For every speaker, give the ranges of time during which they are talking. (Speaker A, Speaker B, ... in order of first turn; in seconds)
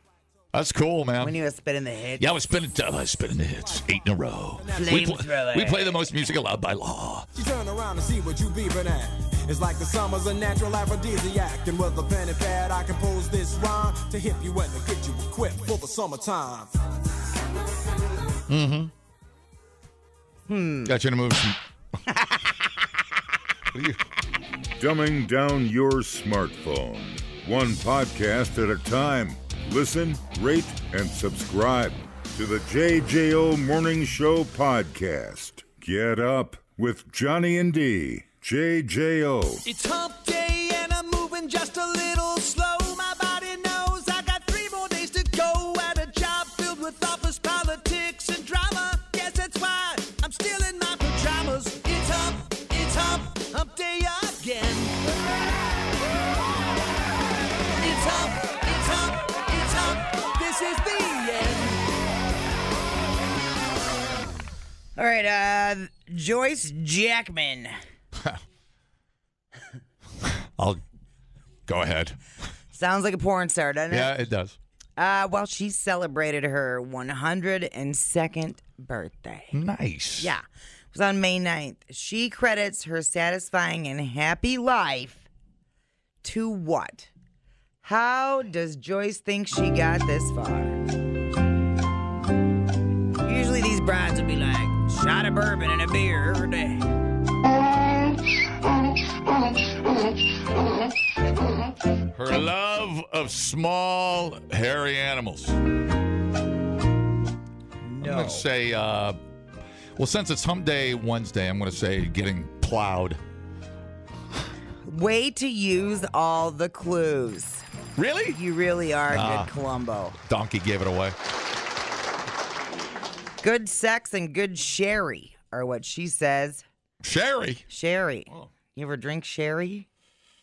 Speaker A: 0.5-1.4, 2.2-7.3, 18.5-18.9, 20.9-21.6, 23.7-24.0, 70.2-70.8, 71.7-72.2, 73.9-74.6, 79.5-80.3, 102.1-105.6, 108.0-109.2, 110.0-113.2, 118.0-118.4, 119.1-119.5, 120.3-121.2, 127.0-127.6
Speaker B: 1.2-2.3, 4.7-6.1, 20.5-20.9, 65.0-67.8, 72.7-74.1, 75.0-79.6, 80.2-85.2, 86.2-87.1, 87.8-90.8, 93.2-96.8, 107.8-108.5, 114.8-117.6, 118.3-120.2, 123.4-126.6, 127.7-129.9
Speaker C: 4.6-5.0, 7.3-16.7
Speaker D: 24.8-39.6
Speaker E: 39.6-55.2, 57.8-61.8